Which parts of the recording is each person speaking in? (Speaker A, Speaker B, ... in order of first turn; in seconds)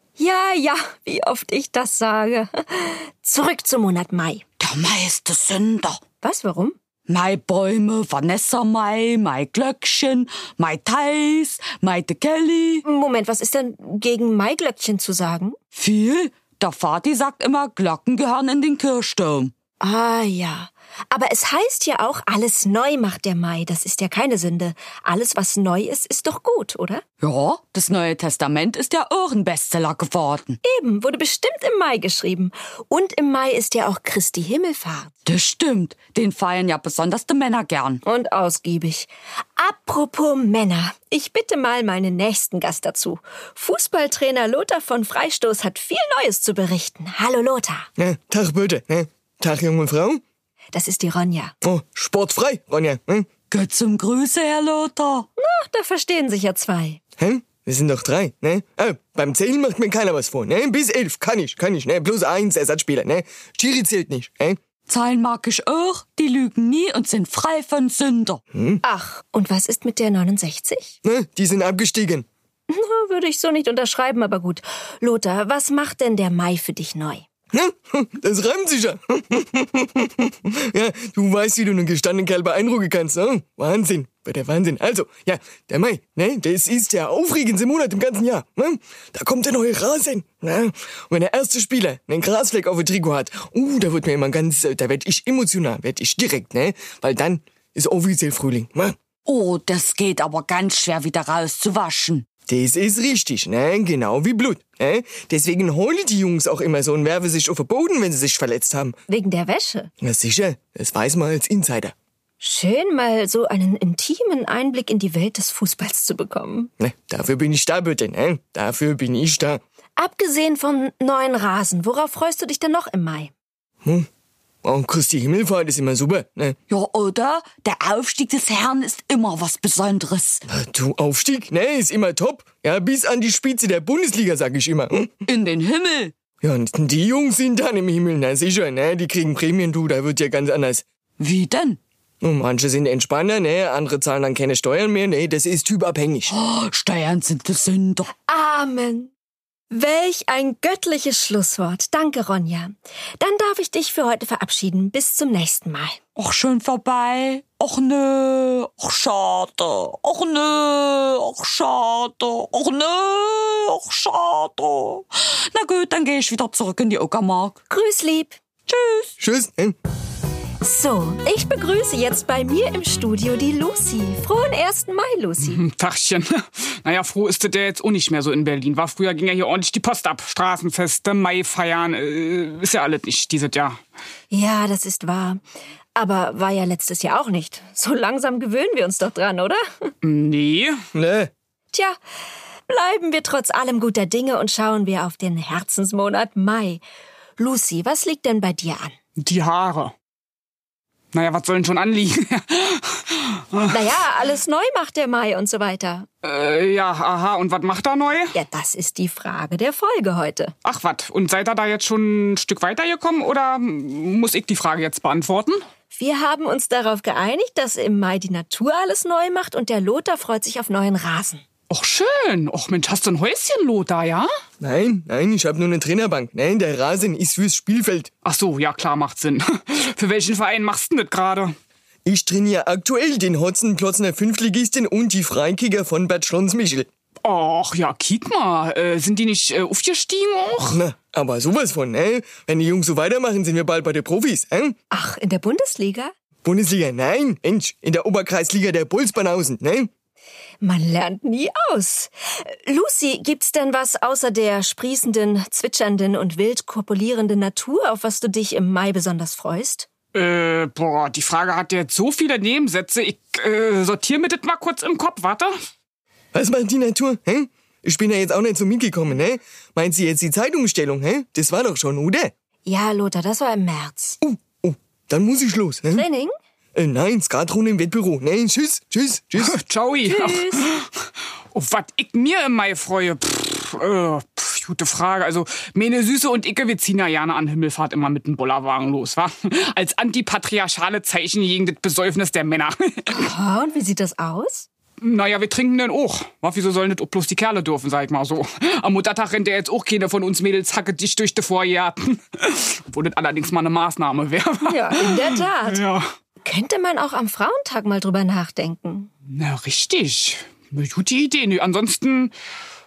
Speaker A: 0.2-4.4, 6.2-6.8, 12.9-15.6, 19.8-27.0, 30.6-35.1, 38.0-47.9, 50.7-51.5, 55.4-57.0, 68.8-71.0, 72.7-77.2, 109.1-109.9, 112.4-116.7, 120.0-123.3, 148.3-149.1, 149.7-156.0, 167.7-168.4, 170.6-175.6, 184.3-185.4, 186.0-189.9, 192.7-196.8, 197.4-199.0, 203.7-206.1, 208.3-210.5, 215.9-221.4, 244.9-246.1, 250.6-259.9, 272.7-274.2, 275.9-276.3, 280.1-280.7, 293.1-294.7, 304.7-305.8, 306.4-309.1
Speaker B: 4.6-6.0, 7.1-12.8, 15.8-19.5, 27.2-30.6, 35.2-38.0, 53.5-55.3, 64.9-68.4, 99.2-102.3, 126.7-130.4, 135.3-136.1, 141.2-141.8, 146.3-148.1, 156.2-167.6, 168.7-169.1
Speaker C: 48.0-50.2, 51.6-53.3, 57.2-64.6, 68.5-68.8, 71.0-72.3, 77.5-99.0, 102.5-109.0, 110.0-111.9, 116.8-119.6, 124.6-126.6, 130.5-135.1, 136.4-140.8, 142.2-146.3, 169.2-169.8, 190.9-191.3, 224.6-228.1, 232.1-236.9, 240.7-244.8, 246.4-249.9, 266.3-272.3, 274.2-276.0, 276.8-279.6
Speaker D: 175.4-183.8, 190.0-190.8, 199.2-199.9, 201.1-203.9, 206.2-208.4, 210.6-215.6, 221.7-224.3, 228.2-231.5, 237.2-240.8, 260.1-265.5, 279.4-280.9, 281.5-293.3, 295.0-306.1, 309.3-312.3